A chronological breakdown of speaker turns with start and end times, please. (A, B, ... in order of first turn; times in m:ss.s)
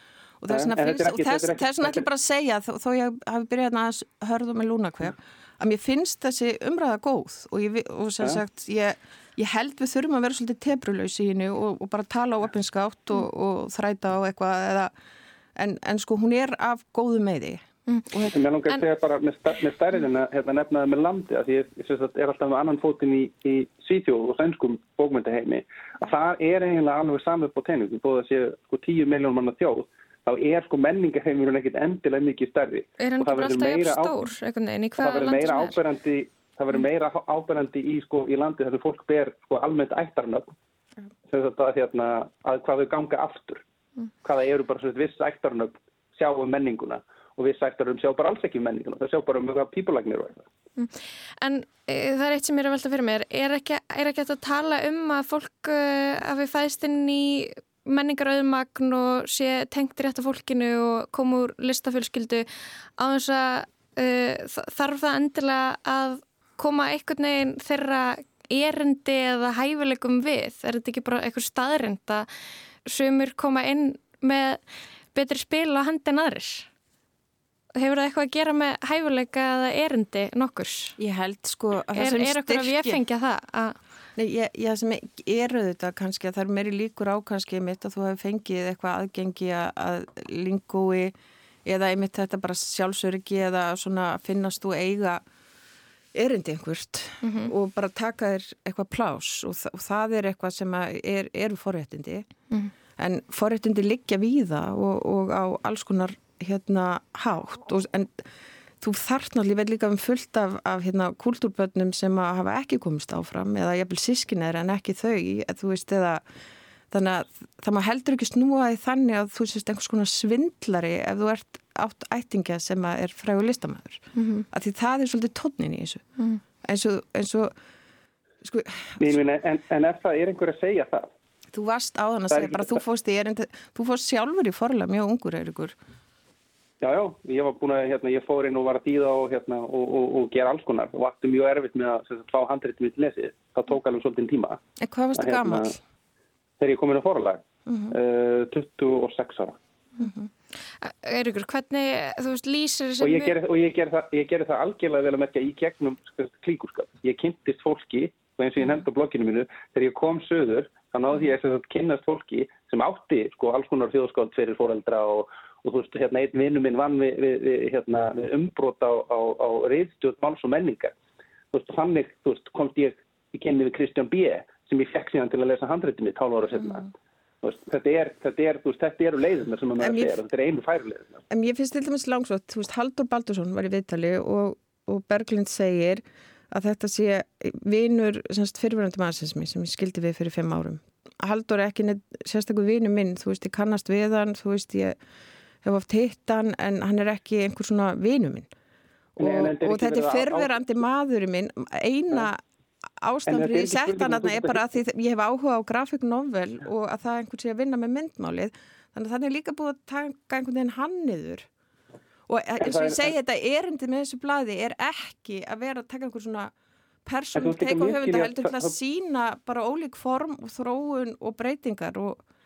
0:00.4-0:14.9 A
0:00.5-0:02.0 B
0:15.6-0:17.6 A
0:17.9-0:18.8 C
0:18.3-0:34.2 B
0:33.0-0:35.8 C
0:35.0-0:40.6 B
0:41.3-0:43.6 B
0:44.2-0:50.5 B
0:50.8-1:02.5 C
1:03.0-1:12.3 C
1:12.9-1:14.6 C
1:15.1-1:16.7 C
1:17.8-1:21.0 C
1:21.0-1:23.0 A
1:22.0-1:23.8 C
1:24.2-1:35.2 A
1:36.1-1:42.3 A
1:37.2-1:37.5 C
1:43.0-1:48.2 A
1:48.8-1:56.2 A
1:56.9-2:06.0 A
2:04.2-2:04.5 C
2:06.6-2:07.5 A
2:08.4-2:09.2 A
2:09.0-2:11.1 B
2:11.5-2:15.8 A
2:12.3-2:12.8 B
2:16.8-2:24.6 B
2:24.8-2:25.8 A
2:25.2-2:25.7 B
2:26.6-2:27.4 B
2:27.7-2:28.0 A
2:27.9-2:29.6 B
2:30.0-2:30.3 A
2:30.8-2:33.4 C
2:33.0-2:50.9 B
2:51.5-2:56.9 B
2:56.6-2:56.8 A
2:57.4-3:01.2 B
2:59.8-3:00.2 A
3:01.3-3:15.0 A
3:15.6-3:18.5 A
3:19.2-3:22.4 A
3:19.2-3:20.6 B
3:23.0-3:31.5 A
3:23.3-3:24.6 B
3:32.3-3:36.5 A
3:32.6-3:33.1 B
3:37.0-3:42.2 A
3:37.4-3:38.7 B